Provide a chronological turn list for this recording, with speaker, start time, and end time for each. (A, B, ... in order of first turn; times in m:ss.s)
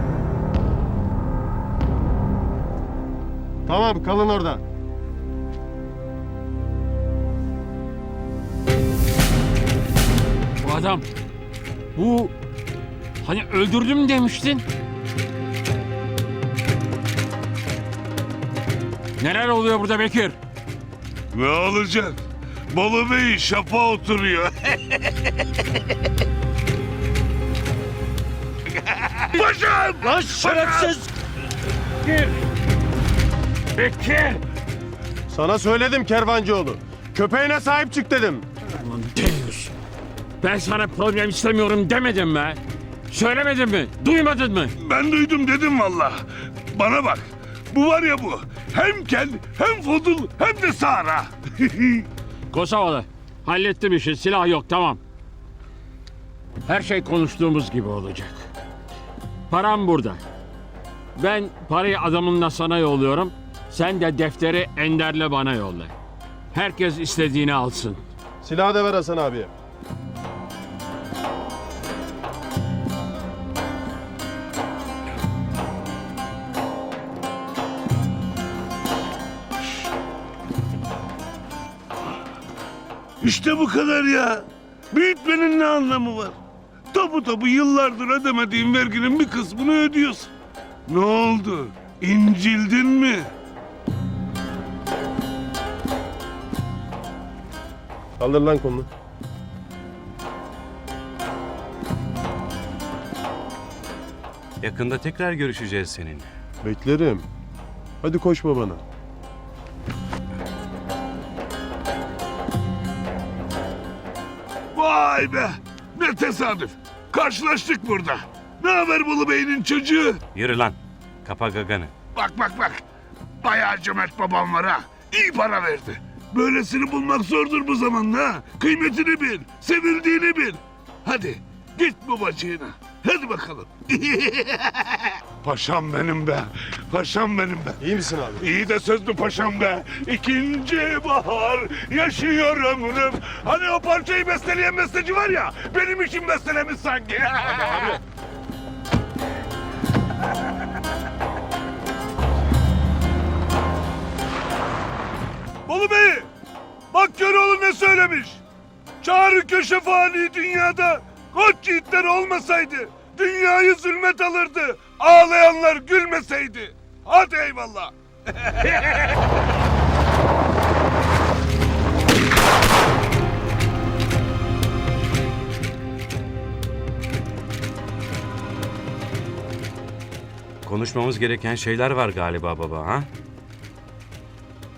0:03.7-0:04.6 A
0:10.6-0:11.0 B
0:11.9-0:12.3 B
0:13.2-0:14.6 B
0:19.2-0:20.4 B
0:21.3-0:22.2 C
0:22.7-0:24.9 C
0:29.2-0:30.9 C
0:30.2-0:31.0 A
0:32.0-0:32.3 B
0:33.7-0:34.4 B
0:35.3-0:38.4 A
0:38.7-0:39.7 B
0:40.4-0:44.7 B
0:44.8-0:46.2 C
0:46.7-0:52.1 C
0:52.5-0:55.0 B
0:56.6-0:58.5 B
0:59.5-1:00.2 B
1:01.2-1:05.9 B
1:06.5-1:08.0 B
1:08.4-1:09.5 A
1:23.2-1:26.3 C
1:26.9-1:30.3 C
1:30.9-1:33.3 C
1:38.2-1:38.9 A
1:44.6-1:46.3 D
1:46.6-1:47.2 A
1:48.0-1:48.8 A
1:54.7-2:00.2 C
2:00.3-2:01.9 D
2:02.2-2:02.8 C
2:03.4-2:17.8 C
2:17.8-2:18.4 A
2:18.4-2:28.0 C
2:27.6-2:28.0 A
2:35.7-2:36.3 C
2:36.9-2:38.4 C
2:39.0-2:48.8 C
3:00.6-3:03.1 D